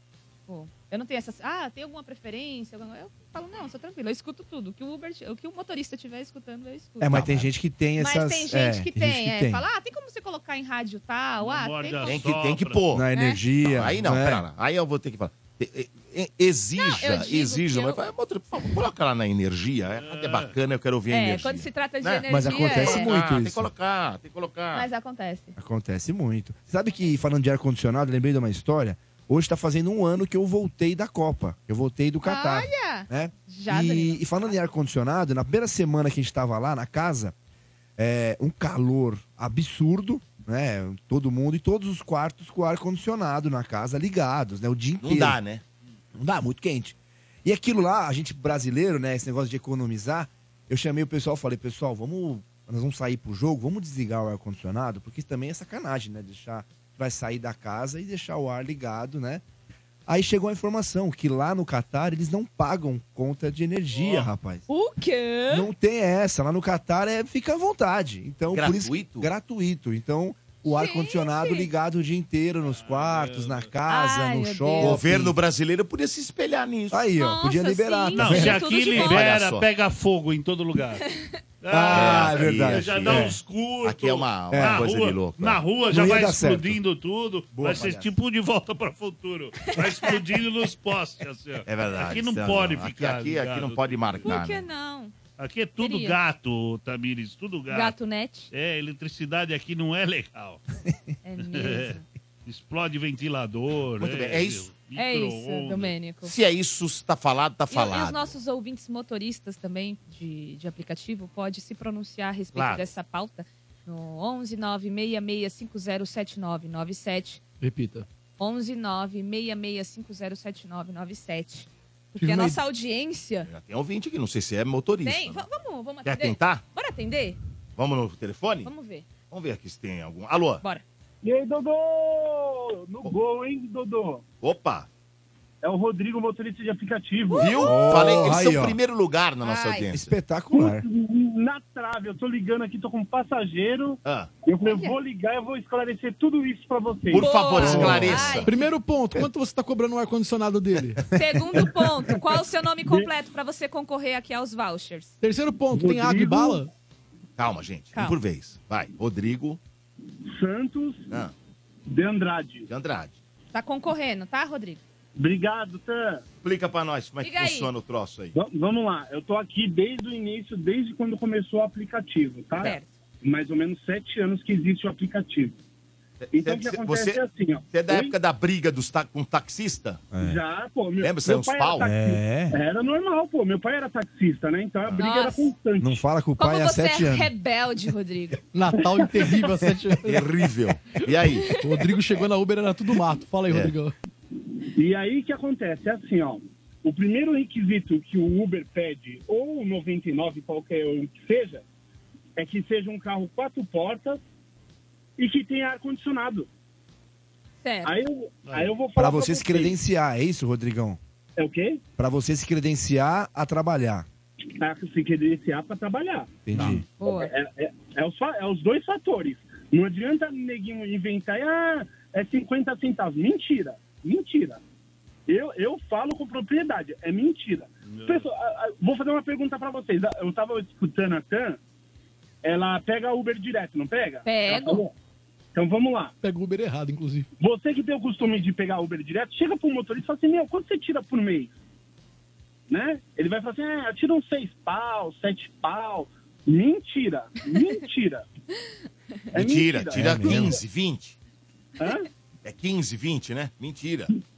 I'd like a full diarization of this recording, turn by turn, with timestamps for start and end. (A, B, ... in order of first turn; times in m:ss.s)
0:00.5-0:07.2 A
0:07.0-0:09.6 B
0:07.1-0:07.5 C
0:08.0-0:12.2 A
0:11.4-0:12.8 D
0:12.0-0:13.1 C
0:12.9-0:14.4 B
0:13.1-0:13.4 A
0:13.6-0:24.9 C
0:16.8-0:18.0 A
0:20.0-0:20.6 D
0:21.1-0:23.2 A
0:22.3-0:23.7 B
0:24.7-0:25.6 A
0:25.6-0:37.3 B
0:32.2-0:34.5 A
0:38.0-0:45.4 B
0:45.0-0:45.6 C
0:46.2-0:59.4 B
1:00.1-1:04.6 B
1:03.9-1:04.3 D
1:04.7-1:05.7 A
1:05.5-1:15.4 B
1:08.5-1:09.3 C
1:10.6-1:11.7 A
1:12.7-1:13.7 D
1:13.9-1:15.0 A
1:14.8-1:17.0 C
1:16.9-1:18.7 B
1:17.2-1:19.3 A
1:18.1-1:21.0 D
1:18.9-1:19.7 C
1:21.0-1:21.4 A
1:21.6-1:34.3 D
1:21.7-1:23.4 B
1:21.9-1:25.6 C
1:24.5-1:24.8 B
1:25.9-1:26.8 B
1:27.6-1:27.8 B
1:27.6-1:28.1 C
1:29.7-1:30.1 A
1:31.7-1:34.7 C
1:34.2-1:35.1 A
1:35.4-1:38.0 D
1:35.8-1:36.2 A
1:37.7-1:38.5 A
1:38.5-1:40.6 D
1:41.2-1:42.0 A
1:41.4-1:46.0 D
1:44.0-1:44.7 C
1:45.0-1:46.3 A
1:46.2-1:48.2 C
1:47.7-1:57.4 A
1:52.6-1:52.8 D
1:57.6-1:58.1 E
1:58.4-2:03.5 A
2:02.1-2:02.6 E
2:03.5-2:05.5 C
2:05.0-2:07.4 A
2:06.0-2:06.6 C
2:07.8-2:08.7 C
2:08.6-2:09.1 A
2:09.3-2:10.6 C
2:11.2-2:14.2 F
2:14.4-2:14.9 C
2:15.6-2:17.6 F
2:17.3-2:18.2 A
2:17.4-2:20.2 C
2:17.6-2:18.8 B
2:19.4-2:19.9 A
2:19.9-2:20.8 B
2:20.5-2:27.4 F
2:24.0-2:24.3 C
2:24.6-2:25.0 A
2:27.1-2:28.5 C
2:27.2-2:28.5 A
2:27.6-2:28.4 B
2:28.4-2:31.0 E
2:31.2-2:35.2 A
2:32.8-2:33.1 F
2:35.2-2:36.7 E
2:35.7-2:36.6 F
2:37.4-2:39.6 C
2:40.3-2:41.1 F
2:41.9-2:42.7 F
2:42.7-2:43.2 C
2:43.5-2:44.8 A
2:45.2-2:46.2 F
2:46.4-2:48.4 C
2:47.2-2:47.7 A
2:48.4-2:55.6 F
2:52.6-2:53.0 A
2:56.2-3:00.1 C
2:56.3-2:58.2 F
3:00.1-3:00.4 B
3:00.2-3:06.0 F
3:01.0-3:01.9 C
3:01.8-3:02.6 B
3:05.0-3:05.5 A
3:05.8-3:07.3 B
3:06.4-3:08.4 A
3:08.5-3:10.3 E
3:10.0-3:11.6 C
3:11.5-3:13.9 E
3:13.5-3:13.7 C
3:14.8-3:21.6 F
3:22.4-3:24.2 F
3:25.2-3:26.5 F
3:27.6-3:28.0 A
3:27.8-3:29.8 F
3:28.5-3:28.7 D
3:29.0-3:31.0 B
3:31.4-3:31.8 F
3:32.0-3:34.1 B
3:34.6-3:44.6 F
3:36.5-3:36.8 B
3:37.0-3:37.3 A
3:45.3-3:51.6 F
3:47.9-3:48.3 D
3:52.4-3:54.9 F
3:54.2-3:54.9 A
3:55.5-3:56.1 F
3:56.2-3:57.3 E
3:57.4-4:01.6 F
4:02.7-4:08.2 F
4:09.3-4:10.6 F
4:09.4-4:11.2 C
4:09.9-4:10.6 B
4:11.8-4:12.1 F
4:12.4-4:14.1 C